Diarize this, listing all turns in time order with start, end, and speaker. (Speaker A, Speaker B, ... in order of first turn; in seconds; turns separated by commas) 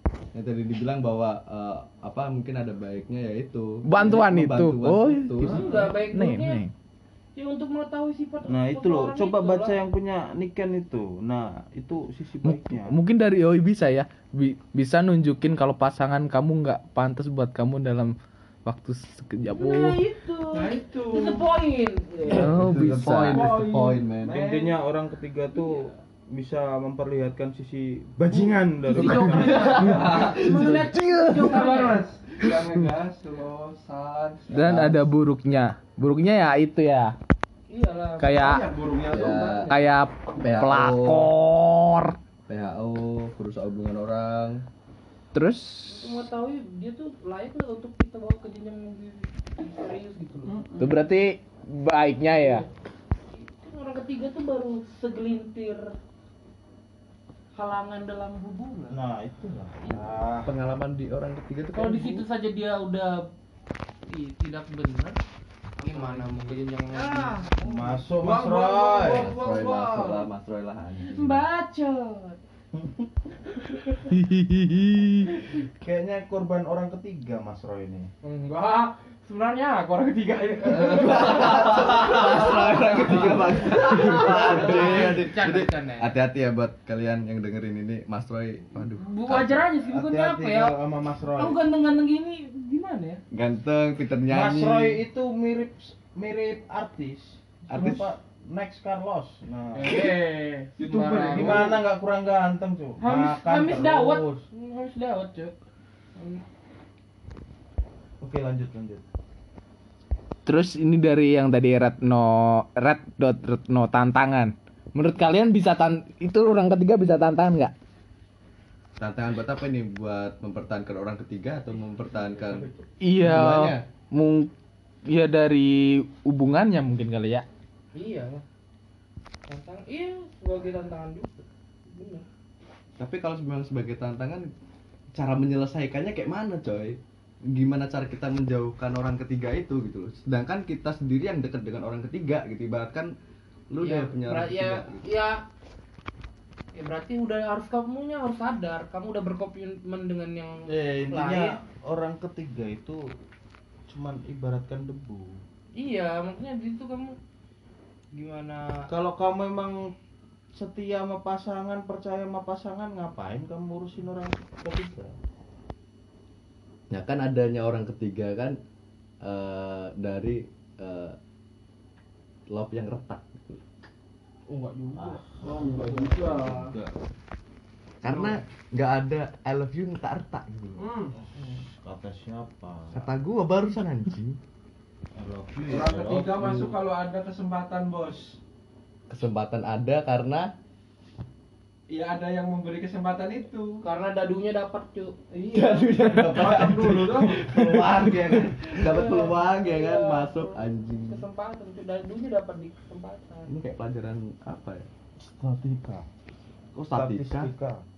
Speaker A: 0.3-5.7, Speaker B: 3.8-6.7, Speaker C: 5.4-6.6, Speaker D: 5.5-5.9, Speaker C: 7.3-9.8, Speaker E: 8.5-13.0, Speaker B: 12.4-20.0, Speaker C: 19.5-22.6, Speaker D: 20.5-21.4, Speaker A: 22.3-24.4, Speaker B: 22.3-23.6, Speaker D: 23.3-24.8, Speaker E: 24.2-30.1, Speaker C: 28.8-32.1, Speaker B: 28.9-31.7, Speaker D: 29.4-30.4, Speaker A: 29.5-30.9, Speaker D: 31.3-34.5, Speaker A: 34.5-35.0, Speaker B: 34.5-37.1, Speaker C: 37.7-38.6, Speaker B: 38.2-38.7, Speaker D: 38.3-39.7, Speaker A: 39.1-39.7, Speaker C: 39.1-39.7, Speaker B: 39.6-42.2, Speaker A: 40.4-41.3, Speaker A: 42.5-44.6, Speaker B: 45.3-46.1, Speaker C: 45.9-50.7, Speaker D: 50.5-50.9, Speaker B: 50.8-52.6, Speaker C: 52.3-52.7, Speaker C: 53.3-56.0, Speaker C: 57.5-59.0, Speaker E: 58.9-60.5, Speaker A: 60.4-62.2, Speaker C: 61.7-63.2, Speaker C: 64.1-65.2, Speaker C: 65.8-68.0, Speaker D: 65.9-67.6, Speaker E: 67.6-69.3, Speaker D: 68.1-70.2, Speaker A: 69.1-71.4, Speaker C: 71.0-72.4, Speaker E: 72.7-73.1, Speaker B: 74.0-75.3, Speaker E: 75.8-78.1, Speaker C: 78.2-86.1, Speaker A: 80.7-89.7, Speaker D: 81.0-82.2, Speaker C: 89.0-90.8, Speaker E: 89.8-91.6, Speaker C: 91.3-93.2, Speaker A: 93.3-95.0, Speaker E: 94.3-100.0, Speaker A: 97.7-98.0, Speaker C: 99.7-101.8, Speaker D: 100.8-101.8, Speaker E: 101.2-104.4, Speaker C: 103.0-105.5, Speaker C: 106.2-106.4, Speaker E: 108.2-109.0, Speaker B: 110.5-117.7, Speaker A: 119.0-123.8, Speaker B: 123.0-124.5, Speaker B: 125.1-127.5, Speaker C: 127.9-128.4, Speaker C: 129.5-132.3, Speaker A: 133.0-134.5, Speaker A: 135.1-143.1, Speaker A: 143.7-145.1, Speaker C: 143.8-145.4, Speaker C: 146.7-151.6, Speaker E: 150.7-153.0, Speaker E: 153.9-155.4, Speaker C: 155.8-157.2, Speaker C: 158.1-158.9, Speaker E: 158.9-159.9, Speaker E: 160.5-165.1, Speaker A: 166.9-168.6, Speaker A: 169.2-171.2, Speaker A: 172.5-173.6, Speaker C: 174.5-175.9, Speaker E: 174.9-176.9, Speaker D: 175.4-176.7, Speaker A: 178.0-180.8, Speaker D: 178.0-178.3, Speaker D: 180.8-181.2, Speaker E: 181.8-183.0, Speaker A: 182.9-184.4, Speaker E: 185.2-186.7, Speaker D: 185.7-188.4, Speaker A: 189.1-190.5, Speaker D: 191.9-193.8, Speaker C: 193.8-196.0, Speaker A: 195.5-201.2, Speaker D: 196.2-197.5, Speaker C: 198.7-203.5, Speaker A: 203.5-204.9, Speaker E: 205.2-206.1, Speaker A: 206.7-207.5, Speaker E: 206.9-207.8